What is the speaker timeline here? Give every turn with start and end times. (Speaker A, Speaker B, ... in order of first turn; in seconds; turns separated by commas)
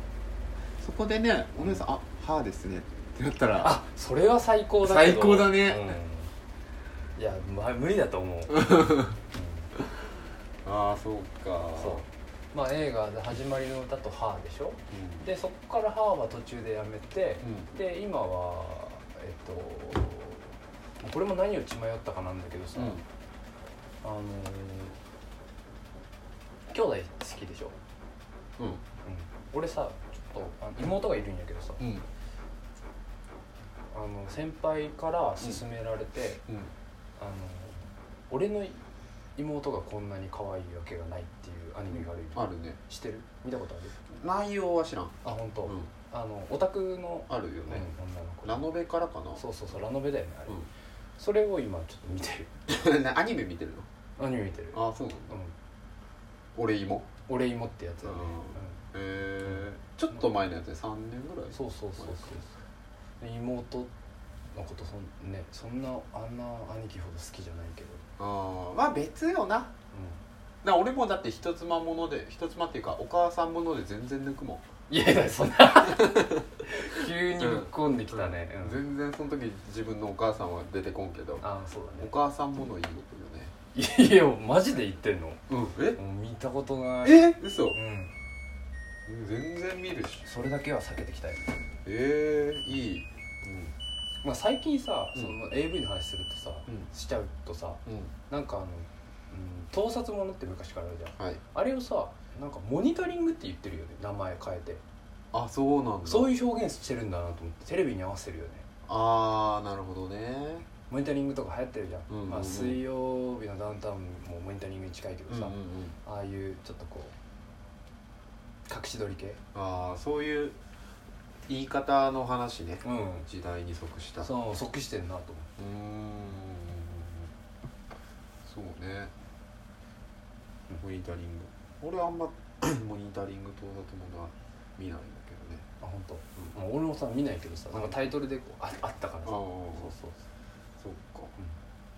Speaker A: 0.8-3.8, Speaker B: 3.6-6.3, Speaker A: 4.8-6.0, Speaker B: 7.2-9.7, Speaker A: 8.6-9.1, Speaker A: 10.6-12.0, Speaker B: 11.8-23.0, Speaker A: 14.9-15.2, Speaker A: 17.4-17.7, Speaker A: 22.7-23.0, Speaker B: 24.0-25.0, Speaker B: 26.7-27.8, Speaker B: 29.0-31.8, Speaker A: 31.8-32.0, Speaker B: 33.9-36.4, Speaker A: 36.5-36.7, Speaker B: 37.2-38.8, Speaker B: 39.4-44.0, Speaker A: 41.9-42.8, Speaker A: 44.1-45.9, Speaker B: 45.2-48.7, Speaker A: 47.3-47.9, Speaker A: 48.4-49.4, Speaker B: 49.4-50.6, Speaker B: 51.2-52.5, Speaker A: 52.7-53.9, Speaker B: 54.2-55.5, Speaker A: 54.7-55.3, Speaker A: 56.5-57.1, Speaker B: 57.2-58.8, Speaker A: 58.0-62.4, Speaker B: 61.5-62.5, Speaker B: 63.2-63.9, Speaker B: 64.5-68.0, Speaker A: 68.2-69.7, Speaker B: 69.9-70.2, Speaker A: 70.6-74.6, Speaker B: 74.9-78.8, Speaker A: 75.8-76.4, Speaker A: 77.4-81.4, Speaker B: 81.4-82.1, Speaker A: 82.0-83.5, Speaker B: 83.7-85.4, Speaker A: 85.5-86.0, Speaker B: 86.0-88.1, Speaker A: 87.0-87.8, Speaker A: 89.1-90.2, Speaker B: 90.2-91.5, Speaker A: 91.8-93.7, Speaker B: 94.2-104.8, Speaker A: 97.8-98.1, Speaker A: 101.2-101.4, Speaker A: 105.3-106.3, Speaker B: 106.0-108.6, Speaker A: 108.9-110.7, Speaker B: 110.9-117.1, Speaker A: 112.1-112.8, Speaker A: 115.3-116.0, Speaker B: 118.7-119.4, Speaker A: 119.5-120.5, Speaker A: 121.5-124.3, Speaker B: 122.8-123.3, Speaker B: 124.2-125.5, Speaker A: 125.6-127.3, Speaker A: 128.4-129.1, Speaker A: 130.8-135.6, Speaker B: 135.8-140.2, Speaker A: 137.7-138.1, Speaker A: 139.2-139.9, Speaker A: 140.8-141.3